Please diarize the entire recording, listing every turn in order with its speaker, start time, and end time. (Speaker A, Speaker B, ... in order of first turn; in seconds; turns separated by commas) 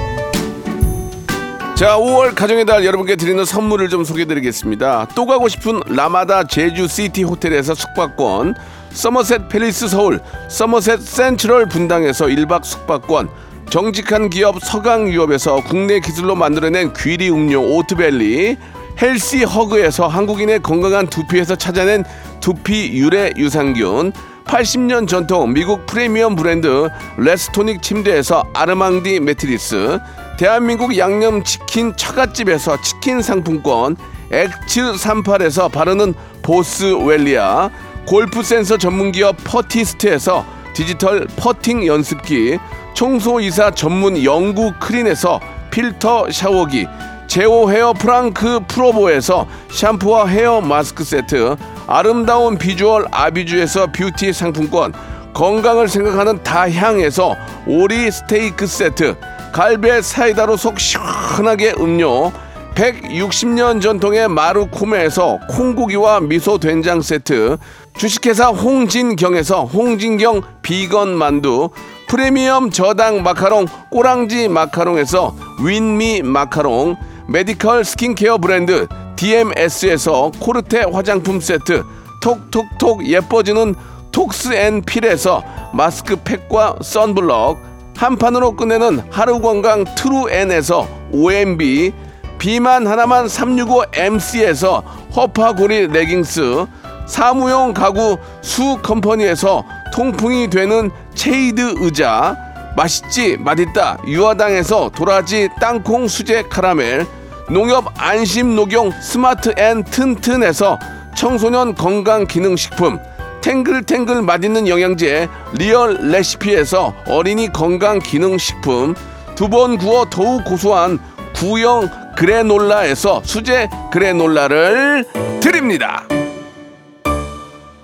Speaker A: 1.7-126.1